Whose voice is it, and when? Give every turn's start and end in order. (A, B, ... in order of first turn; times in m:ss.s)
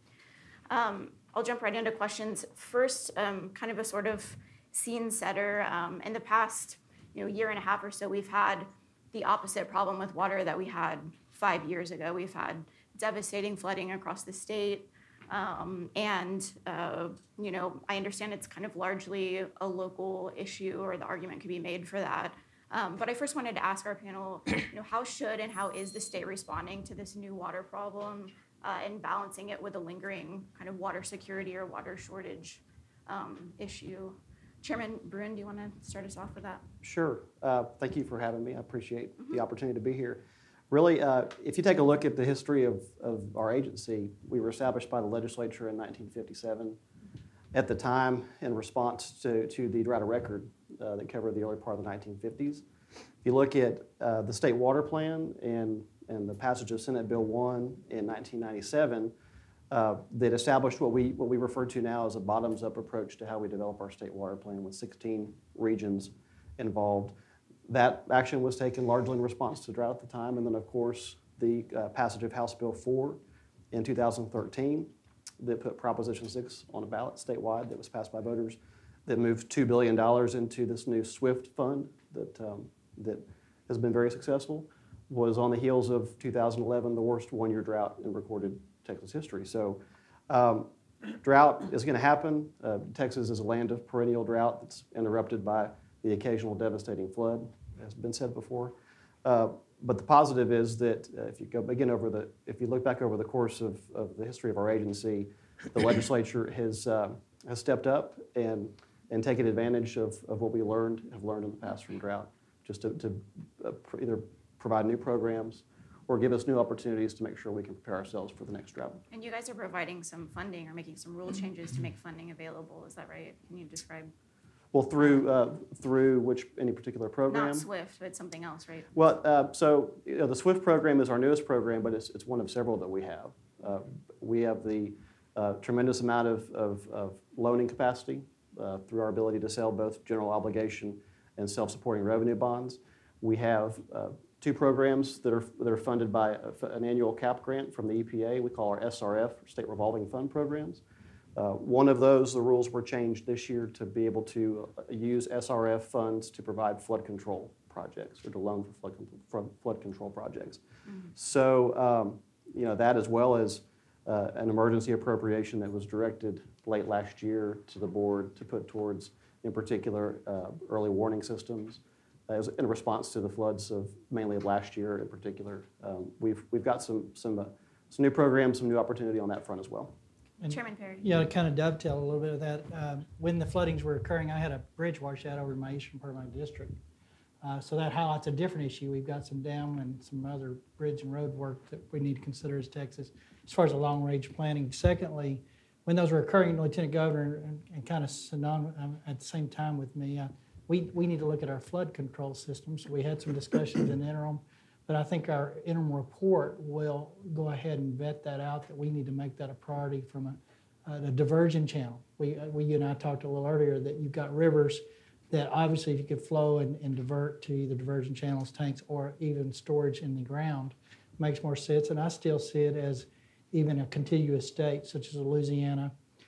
0:00.7-0:36.6 A
0:36.8-0:46.8 B
0:47.5-0:52.6 B
0:53.2-0:59.1 B
0:59.7-1:07.2 B
1:07.7-1:13.2 B
1:13.7-1:30.7 B
1:31.2-1:59.0 B
1:59.1-2:04.1 A
2:04.7-2:07.7 B
2:07.3-2:08.9 A
2:08.9-2:30.8 B
2:31.4-2:40.6 B
2:41.2-3:00.0 B
3:00.4-3:06.8 C
3:00.5-3:01.1 A
3:07.4-3:45.9 C